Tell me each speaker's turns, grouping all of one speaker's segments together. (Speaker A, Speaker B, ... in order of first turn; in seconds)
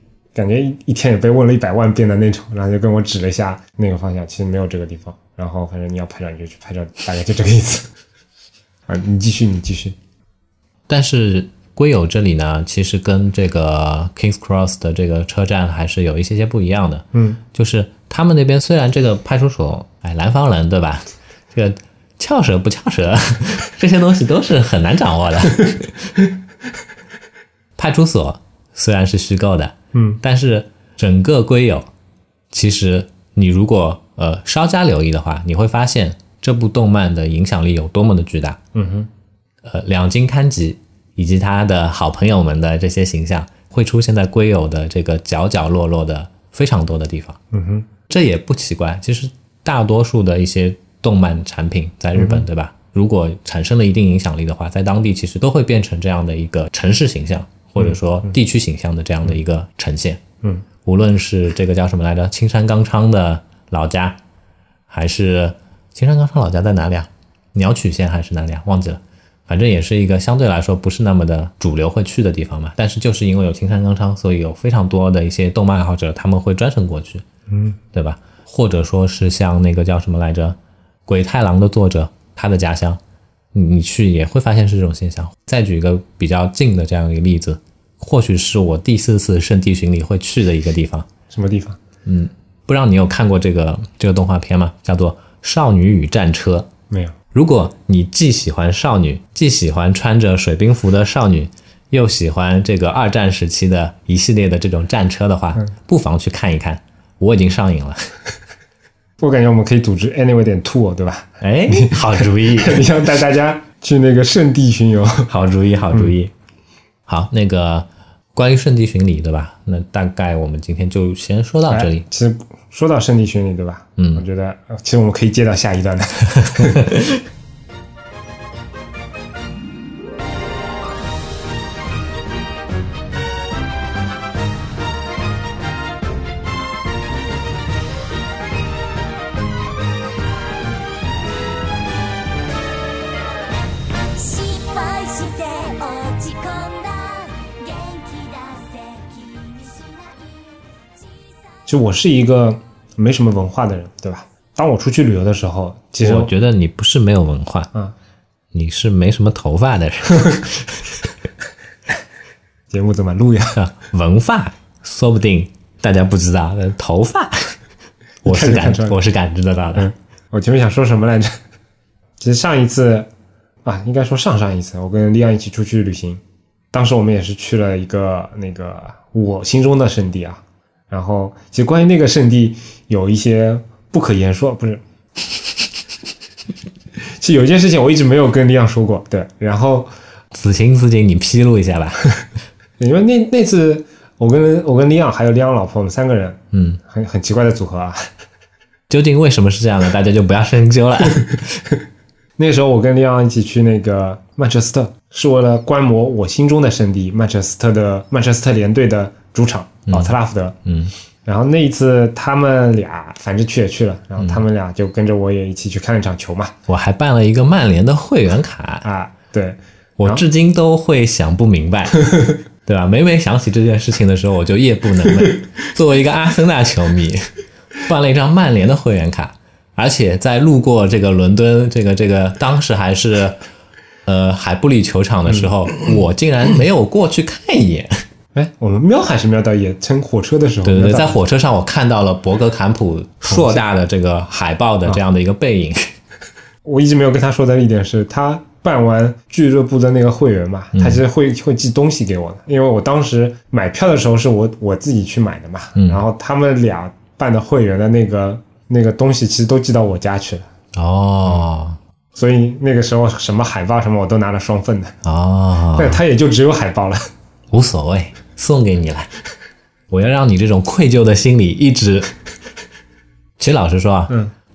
Speaker A: 0.3-7.9, 8.9-9.9, 17.1-17.4, 29.9-30.2, 38.7-39.1, 47.5-47.9, 52.2-52.4, 77.5-77.8, 91.3-91.8, 109.2-115.3, 121.7-127.0, 151.7-156.3, 162.7-163.6, 168.2-169.0, 169.8-171.4, 172.2-173.1, 173.7-176.2, 176.7-184.8, 187.0-189.9, 192.8-198.0, 202.4-210.6, 211.2-216.6, 218.8-220.2, 238.3-241.2, 243.3-243.6, 246.7-260.5, 262.1-265.0, 265.8-267.1
Speaker B: 10.9-25.9, 27.8-31.9, 32.5-38.6, 39.6-47.4, 48.1-60.2, 60.9-64.2, 64.9-77.2, 77.9-83.0, 83.5-91.1, 92.1-96.7, 97.3-108.1, 111.4-112.8, 115.3-116.3, 117.1-122.0, 124.0-124.2, 126.4-127.1, 156.0-157.7, 158.5-160.8, 163.6-167.6, 168.2-169.9, 190.3-192.1, 196.5-196.8, 198.9-201.5, 209.9-210.9, 216.7-218.9, 220.0-233.4, 234.1-238.0, 240.6-245.9, 250.8-251.0, 255.8-256.0, 260.7-261.8, 265.0-266.0, 267.5-269.1, 269.9-272.1, 273.4-274.1
Speaker C: 144.1-151.7